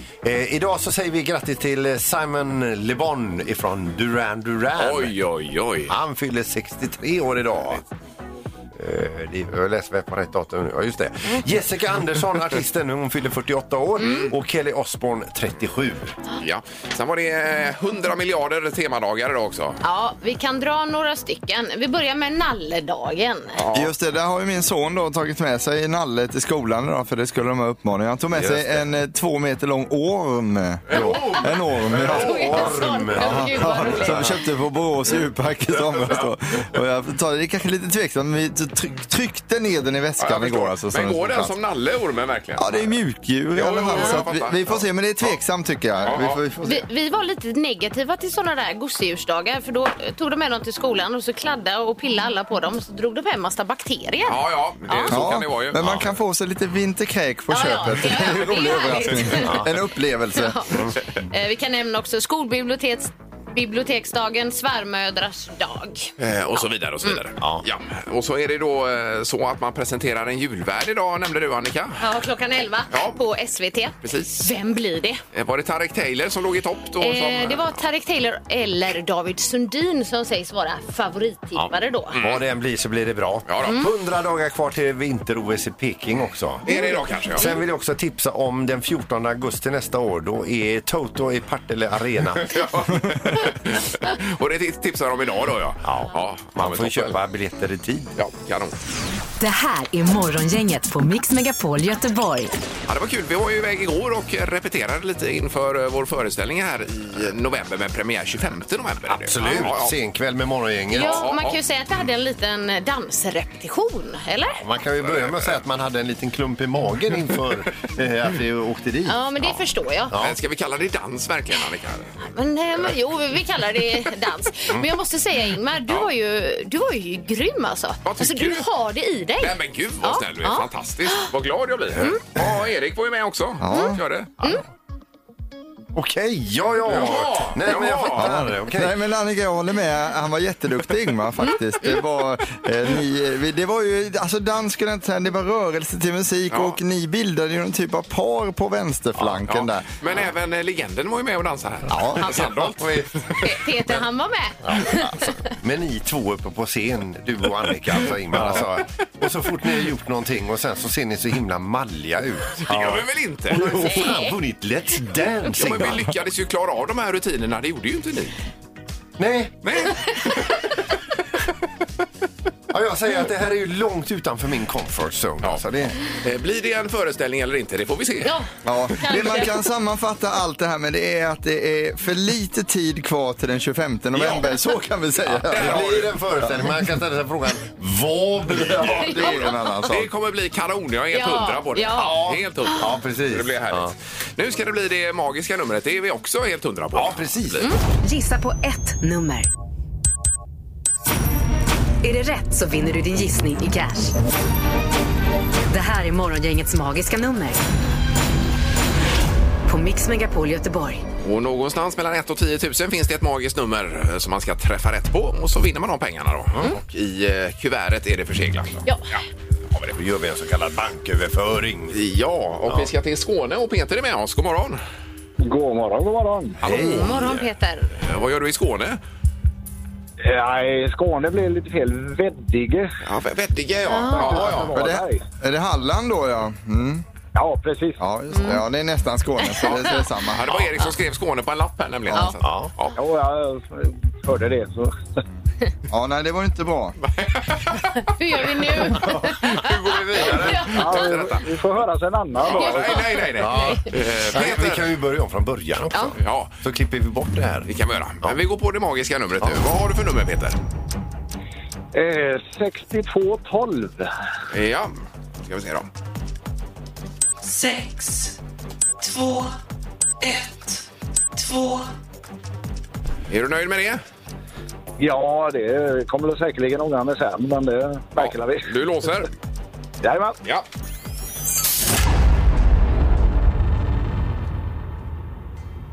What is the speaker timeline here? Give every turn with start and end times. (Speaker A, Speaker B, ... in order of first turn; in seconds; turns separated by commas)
Speaker A: 0.2-5.1, Speaker B: 4.8-6.0, Speaker A: 5.9-7.8, Speaker A: 8.8-16.2, Speaker C: 14.0-14.3, Speaker B: 16.4-19.8, Speaker C: 19.8-23.6, Speaker B: 23.6-23.9, Speaker D: 23.7-32.6, Speaker A: 28.4-28.8, Speaker B: 30.9-32.5, Speaker A: 30.9-34.2, Speaker C: 32.0-34.4, Speaker D: 33.2-41.5, Speaker B: 40.2-43.0, Speaker D: 42.6-46.9, Speaker B: 43.5-44.8, Speaker B: 46.0-46.4, Speaker C: 46.6-55.1, Speaker B: 54.3-56.1, Speaker D: 55.1-60.6, Speaker C: 57.5-59.6, Speaker A: 59.4-59.7, Speaker C: 60.3-66.1, Speaker B: 66.2-72.0, Speaker C: 72.0-75.2, Speaker B: 72.9-73.2, Speaker B: 74.0-74.5, Speaker B: 75.3-77.8, Speaker C: 77.0-82.2, Speaker A: 81.6-86.7, Speaker B: 82.1-82.5, Speaker B: 83.5-83.8, Speaker C: 83.6-83.9, Speaker B: 86.7-87.5, Speaker C: 86.7-87.6, Speaker A: 87.3-92.6, Speaker B: 92.4-97.2, Speaker A: 95.8-98.2, Speaker B: 98.2-98.8, Speaker E: 99.4-102.5, Speaker B: 102.9-110.0, Speaker A: 109.1-111.3, Speaker C: 110.9-114.6, Speaker B: 111.0-111.6, Speaker A: 114.6-119.2, Speaker B: 115.0-115.6, Speaker C: 119.1-120.1, Speaker B: 120.2-122.2, Speaker C: 122.2-131.3, Speaker B: 128.0-128.7, Speaker B: 129.4-134.3, Speaker A: 131.9-132.5, Speaker D: 133.6-134.0, Speaker C: 133.7-134.6, Speaker A: 135.9-138.9, Speaker B: 136.9-138.3, Speaker D: 138.1-149.9, Speaker B: 146.5-146.8, Speaker B: 149.5-153.3, Speaker D: 151.9-152.4, Speaker A: 151.9-154.0, Speaker C: 153.4-155.3, Speaker A: 154.6-166.1, Speaker B: 158.3-158.7, Speaker B: 162.6-164.0, Speaker C: 163.6-164.4, Speaker B: 165.5-168.4, Speaker A: 169.2-169.6, Speaker B: 169.6-170.6, Speaker A: 172.7-176.0, Speaker B: 175.4-178.3, Speaker C: 178.2-178.5, Speaker D: 178.6-186.5, Speaker C: 179.0-179.5, Speaker B: 184.2-184.4, Speaker B: 185.3-186.2, Speaker A: 185.5-189.2, Speaker D: 188.5-190.1, Speaker C: 188.9-189.6, Speaker B: 189.2-197.7, Speaker C: 191.1-192.7, Speaker A: 192.0-193.9, Speaker A: 196.9-197.7, Speaker E: 198.0-199.5, Speaker E: 202.0-204.2, Speaker E: 205.7-207.6, Speaker E: 209.7-211.0, Speaker B: 211.2-219.2, Speaker A: 219.9-222.0, Speaker B: 221.9-224.8, Speaker F: 225.4-226.6, Speaker A: 226.6-227.3, Speaker B: 226.6-227.4, Speaker C: 226.7-227.9, Speaker B: 228.0-229.0, Speaker F: 230.2-232.9, Speaker B: 233.0-234.7, Speaker C: 233.9-234.5, Speaker F: 234.0-235.2, Speaker D: 234.7-237.0, Speaker F: 237.3-238.0, Speaker D: 238.0-240.5, Speaker C: 238.3-238.6, Speaker B: 239.6-242.9, Speaker A: 242.4-242.7, Speaker F: 243.0-245.2, Speaker D: 245.9-247.0, Speaker B: 247.0-248.0, Speaker C: 248.1-249.7, Speaker B: 248.8-251.5, Speaker A: 249.8-250.7, Speaker C: 250.3-250.8, Speaker F: 250.7-253.1, Speaker B: 252.4-254.9, Speaker C: 252.5-253.9, Speaker A: 253.4-257.7, Speaker B: 256.2-256.5, Speaker B: 257.7-260.6, Speaker F: 261.9-264.1, Speaker B: 264.5-264.9, Speaker B: 265.5-265.9, Speaker G: 267.4-268.4, Speaker G: 269.0-269.6, Speaker G: 270.2-270.8, Speaker G: 271.4-271.9, Speaker B: 273.3-274.0, Speaker F: 275.0-278.8, Speaker B: 278.2-279.3, Speaker F: 280.0-280.4